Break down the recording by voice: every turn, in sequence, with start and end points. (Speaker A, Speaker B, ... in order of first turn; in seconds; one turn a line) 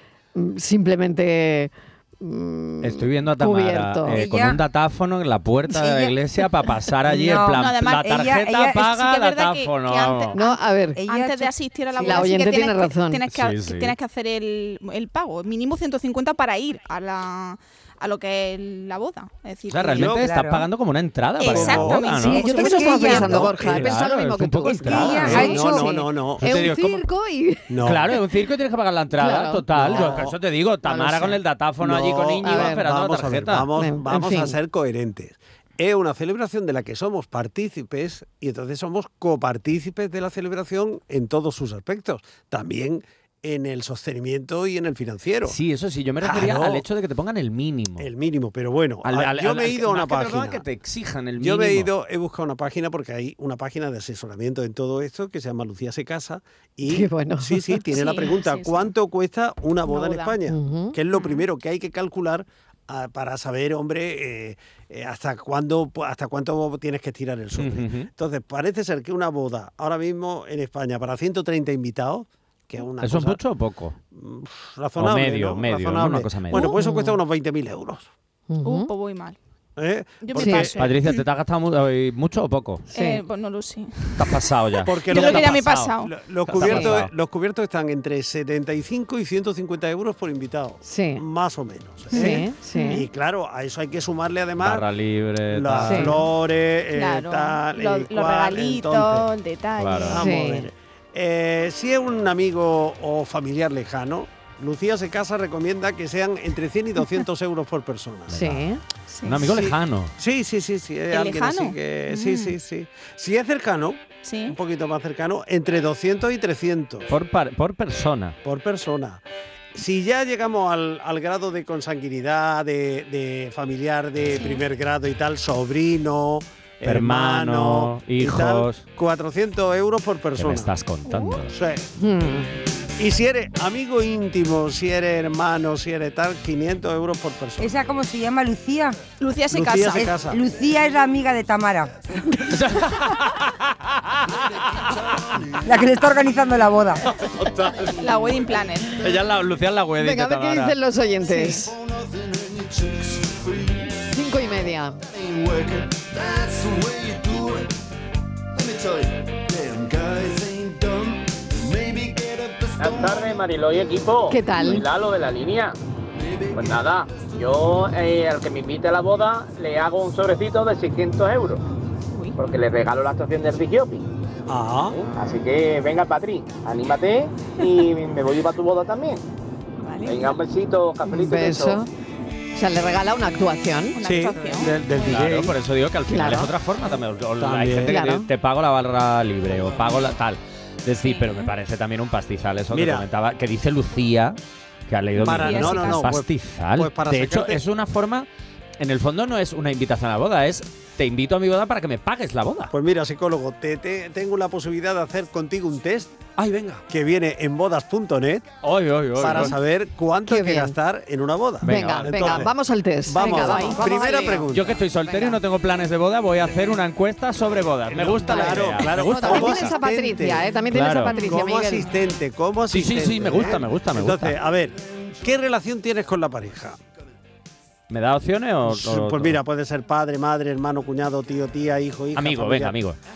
Speaker A: 0.3-4.2
Speaker B: 2.8-10.3
Speaker C: 4.1-4.6
Speaker C: 5.7-6.2
Speaker C: 7.0-8.9
Speaker D: 7.4-8.2
Speaker D: 8.7-10.6
Speaker A: 10.3-11.0
Speaker C: 10.9-12.6
Speaker D: 11.1-20.2
Speaker A: 12.0-13.2
Speaker B: 13.3-13.9
Speaker B: 19.7-25.6
Speaker C: 19.9-20.7
Speaker D: 21.4-23.3
Speaker E: 21.5-21.8
Speaker C: 22.1-23.5
Speaker A: 22.4-27.7
Speaker E: 23.1-24.0
Speaker E: 24.8-26.6
Speaker C: 24.8-25.9
Speaker B: 26.4-27.0
Speaker E: 27.7-28.1
Speaker B: 27.8-33.7
Speaker A: 29.2-30.2
Speaker E: 29.7-30.4
Speaker E: 31.0-45.6
Speaker A: 32.4-32.8
Speaker A: 33.8-34.5
Speaker B: 45.5-48.1
Speaker E: 46.2-46.8
Speaker E: 48.0-50.6
Speaker B: 49.0-51.9
Speaker E: 51.4-73.4
Speaker A: 56.8-57.8
Speaker D: 57.9-58.9
Speaker D: 59.8-60.4
Speaker A: 60.5-61.0
Speaker D: 61.1-61.5
Speaker B: 67.6-68.1
Speaker B: 73.0-74.0
Speaker E: 74.1-78.1
Speaker B: 75.0-76.8
Speaker D: 76.5-76.8
Speaker A: 76.7-77.2
Speaker A: 78.5-78.9
Speaker D: 78.6-79.4
Speaker E: 79.8-80.8
Speaker D: 80.2-81.2
Speaker A: 80.3-80.7
Speaker B: 80.7-82.8
Speaker D: 82.9-84.4
Speaker A: 82.9-83.2
Speaker B: 84.2-85.9
Speaker E: 84.8-94.8
Speaker D: 85.1-86.1
Speaker B: 86.5-87.1
Speaker A: 86.6-86.9
Speaker A: 90.8-91.2
Speaker A: 92.1-93.0
Speaker D: 92.1-93.0
Speaker B: 94.6-96.2
Speaker E: 95.5-99.3
Speaker A: 95.8-96.2
Speaker D: 96.9-100.3
Speaker B: 99.8-100.2
Speaker E: 100.1-108.6
Speaker A: 100.1-100.7
Speaker A: 108.3-108.8
Speaker D: 109.1-109.4
Speaker B: 109.2-110.1
Speaker E: 109.4-117.1
Speaker D: 111.1-112.5
Speaker D: 114.2-114.5
Speaker B: 117.1-118.4
Speaker E: 118.4-119.2
Speaker E: 119.7-130.7
Speaker D: 124.3-124.6
Speaker B: 126.8-128.8
Speaker B: 130.4-131.5
Speaker E: 131.5-131.9
Speaker A: 132.0-132.5
Speaker E: 133.0-137.8
Speaker C: 137.6-139.0
Speaker D: 139.2-140.1
Speaker E: 139.5-140.4
Speaker C: 139.9-141.9
Speaker B: 142.4-144.2
Speaker F: 144.3-145.8
Speaker C: 145.6-147.0
Speaker B: 147.2-147.9
Speaker D: 147.9-149.0
Speaker B: 148.9-150.7
Speaker A: 150.0-151.7
Speaker F: 151.4-154.0
Speaker A: 154.1-155.0
Speaker F: 155.1-157.7
Speaker F: 158.6-163.4
Speaker G: 162.8-165.8
Speaker A: 164.3-164.8
Speaker F: 166.2-167.3
Speaker G: 166.5-171.6
Speaker G: 172.4-174.0
Speaker E: 174.5-175.0
Speaker G: 175.1-179.2
Speaker D: 179.8-180.3
Speaker G: 180.0-181.8
Speaker A: 181.1-181.9
Speaker A: 182.6-184.0
Speaker D: 183.9-185.2
Speaker E: 184.0-185.5
Speaker B: 184.9-198.3
Speaker A: 186.1-186.5
Speaker E: 187.4-187.9
Speaker A: 187.8-188.3
Speaker D: 191.0-191.5
Speaker E: 192.7-193.1
Speaker D: 195.2-196.1
Speaker E: 195.2-197.6
Speaker B: 198.8-202.7
Speaker E: 202.7-206.2
Speaker B: 206.4-206.8
Speaker E: 206.9-208.5
Speaker B: 208.6-209.6
Speaker E: 209.1-212.5
Speaker A: 210.3-210.8
Speaker B: 211.6-212.5
Speaker A: 211.6-214.5
Speaker E: 213.1-214.8
Speaker D: 213.3-213.8
Speaker B: 214.5-219.7
Speaker A: 215.0-215.4
Speaker E: 217.9-226.8
Speaker A: 218.2-221.8
Speaker B: 220.7-221.2
Speaker B: 222.7-224.3
Speaker B: 227.9-229.4
Speaker E: 228.7-232.8
Speaker B: 232.1-233.0